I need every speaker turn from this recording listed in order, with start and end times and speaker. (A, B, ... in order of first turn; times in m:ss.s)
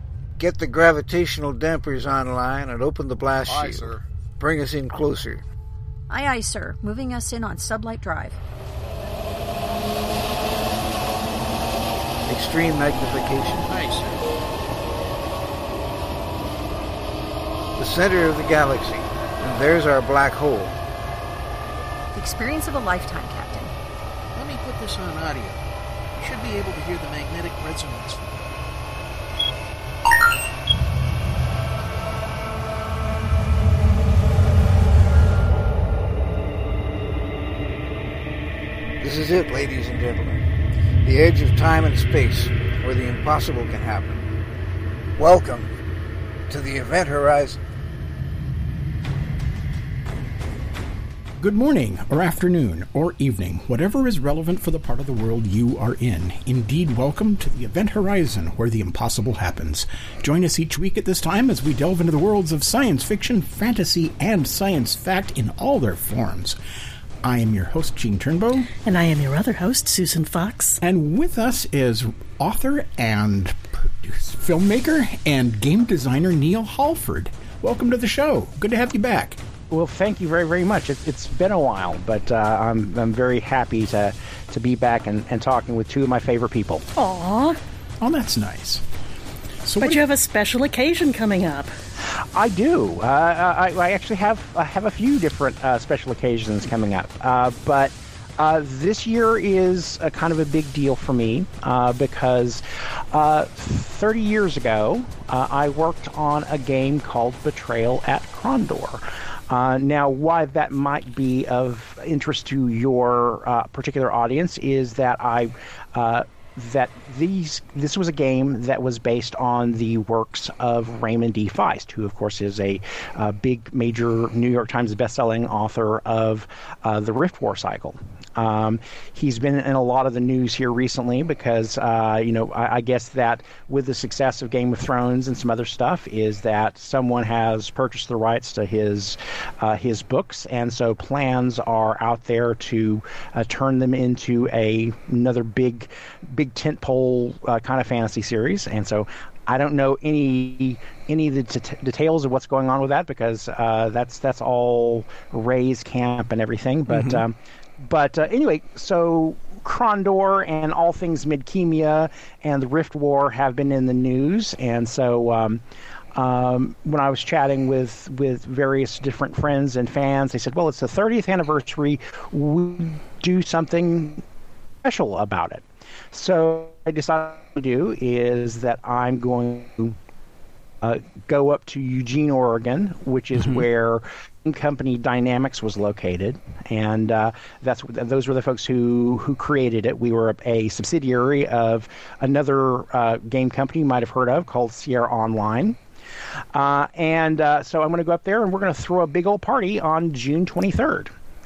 0:00.4-0:05.4 A
0:03.4-0:04.0 B
0:06.1-0:08.4 C
0:12.3-0:13.8 A
0:13.7-0:14.2 B
0:17.8-0:20.8 A
0:22.1-0:23.7 C
0:24.3-0:25.6 B
0:26.2-0:28.4 B
0:39.0-0:40.4 A
0:41.0-0:44.3 A
0:45.2-0:45.7 A
0:46.5-0:47.6 A
0:51.4-1:06.6 D
1:07.2-1:08.7 D
1:08.8-1:10.8 E
1:10.8-1:19.4 D
1:19.7-1:26.8 F
1:27.0-1:27.6 E
1:28.0-1:28.8 D
1:29.6-1:30.0 D
1:29.8-1:31.7 E
1:32.3-2:45.6 F
2:46.2-2:54.2 F
2:54.8-3:00.0 F
3:00.8-3:15.8 F
3:16.5-3:21.1 F